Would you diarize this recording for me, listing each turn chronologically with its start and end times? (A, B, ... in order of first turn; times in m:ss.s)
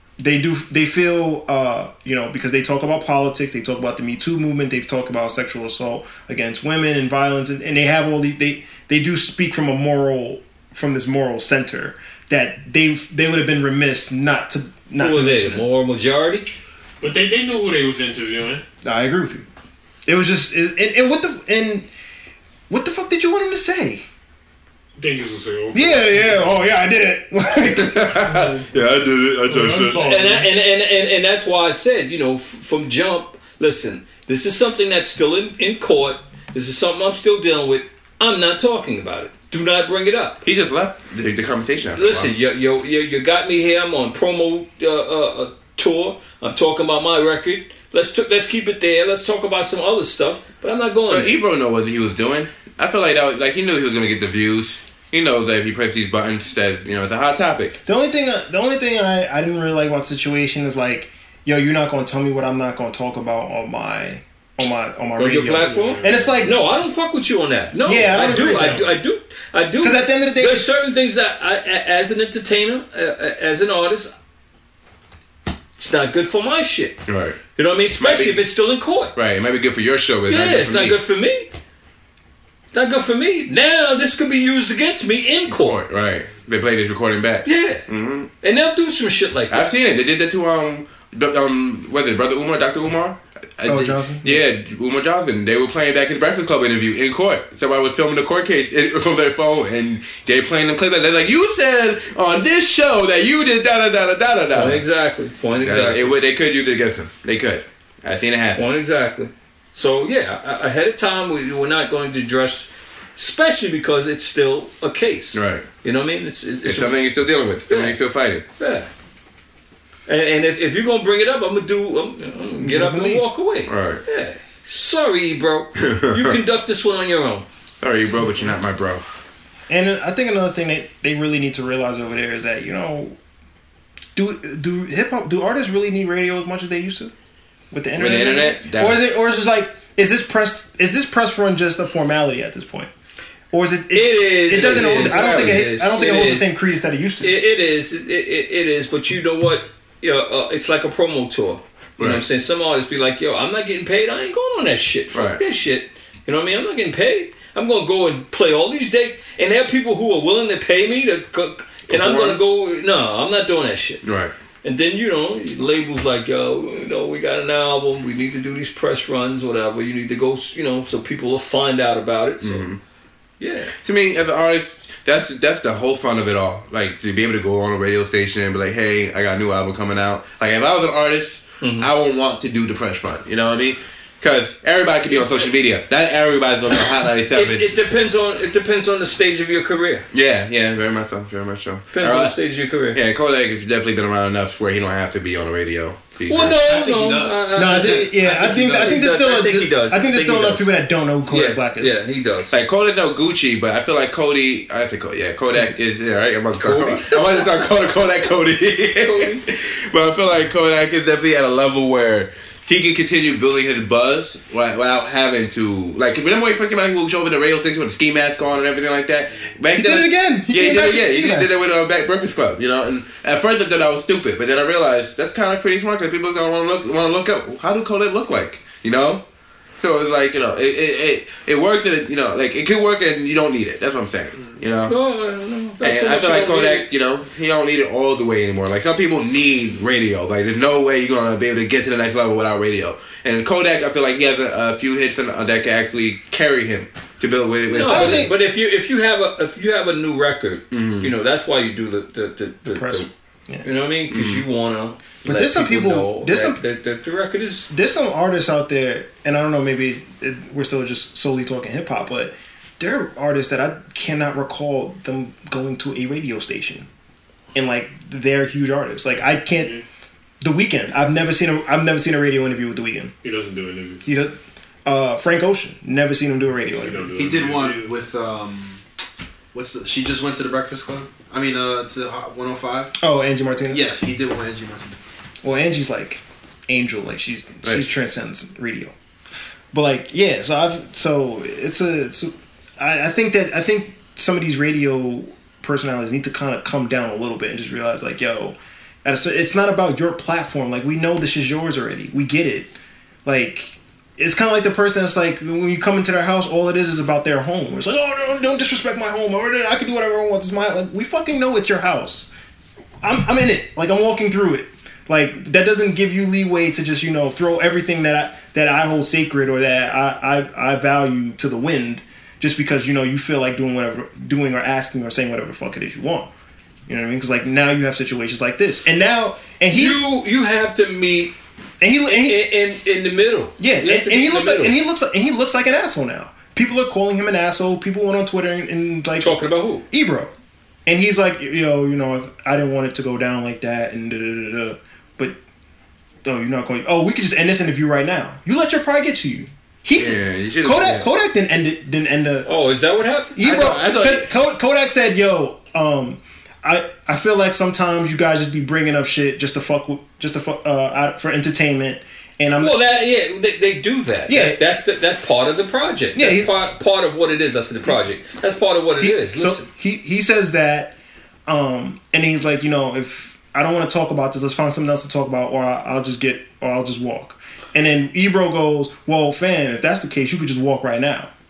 0:00.2-0:15.6 A
0:15.0-0:16.5 B
0:17.0-0:18.6 C
0:18.8-0:19.4 A
0:20.0-0:21.9 A
0:22.7-0:24.0 A
0:25.0-0:26.6 C
0:25.7-0:28.4 A
0:27.6-0:30.1 D
0:29.5-0:30.5 C
0:30.0-0:40.4 B
0:40.4-0:42.3 D
0:42.0-0:51.4 B
0:51.1-0:57.8 D
0:57.8-1:06.6 A
1:05.2-1:14.1 B
1:05.5-1:06.5 C
1:07.8-1:08.9 A
1:09.8-1:10.7 A
1:15.8-1:17.0 B
1:17.1-1:17.4 D
1:17.6-1:19.1 B
1:18.0-1:18.4 D
1:19.1-1:21.0 D
1:20.3-1:21.5 B
1:22.7-1:25.8 B
1:25.5-1:28.3 D
1:27.4-1:27.8 B
1:28.4-1:29.7 B
1:29.5-1:44.8 D
1:33.6-1:34.4 A
1:44.5-1:46.1 B
1:45.6-1:48.6 D
1:48.6-1:57.0 B
1:55.3-1:55.6 D
1:56.6-1:58.4 D
1:57.7-1:58.0 B
1:58.6-1:58.9 B
2:00.1-2:07.4 B
2:02.6-2:03.3 A
2:03.7-2:04.0 D
2:05.8-2:06.2 D
2:07.8-2:09.0 D
2:09.7-2:13.2 A
2:14.1-2:17.1 A
2:17.7-2:22.9 A
2:18.0-2:19.0 D
2:23.5-2:27.3 A
2:23.9-2:26.5 B
2:24.5-2:25.6 D
2:27.2-2:44.0 B
2:32.0-2:32.2 D
2:35.1-2:35.4 D
2:41.9-2:42.4 D
2:44.0-2:44.3 D
2:44.6-2:52.7 B
2:52.4-2:52.8 D
2:53.4-2:53.7 B
2:53.8-3:07.7 D
3:01.6-3:01.9 B
3:07.3-3:10.0 B
3:10.1-3:12.4 D
3:11.9-3:13.0 B
3:12.9-3:16.6 D
3:16.3-3:20.7 B
3:16.3-3:19.1 E
3:17.5-3:22.0 A
3:21.3-3:22.5 B
3:22.5-3:49.2 D
3:26.6-3:27.7 B
3:29.0-3:29.4 B
3:39.7-3:41.6 A
3:49.8-3:54.9 D
3:54.8-3:56.9 B
3:55.8-4:08.3 D
4:07.7-4:13.1 B
4:07.7-4:08.3 A
4:10.7-4:11.1 D
4:12.7-4:13.6 A
4:13.6-4:17.7 B
4:14.1-4:14.4 D
4:15.2-4:16.6 A
4:17.7-4:26.9 A
4:27.5-4:29.8 A
4:30.4-4:33.1 A
4:33.2-4:34.0 C
4:34.0-4:37.1 A
4:36.7-4:37.9 C
4:37.2-4:38.8 E
4:39.5-4:42.9 E
4:43.0-4:43.8 A
4:43.7-4:45.0 E
4:45.4-4:48.9 A
4:49.7-5:02.7 A
5:03.2-5:12.3 A
5:13.0-5:26.3 A
5:26.9-5:30.0 A
5:29.7-5:31.3 B
5:31.8-5:32.5 A
5:32.1-5:34.7 B
5:33.6-5:40.3 A
5:39.2-5:39.8 B
5:40.8-5:45.4 A
5:46.2-5:52.5 A
5:49.9-5:51.1 D
5:52.4-5:53.4 B
5:53.3-6:02.8 A
5:53.4-5:54.3 D
6:02.5-6:09.6 B
6:04.3-6:04.6 A
6:06.2-6:06.5 A
6:09.0-6:10.9 A
6:11.5-6:21.3 A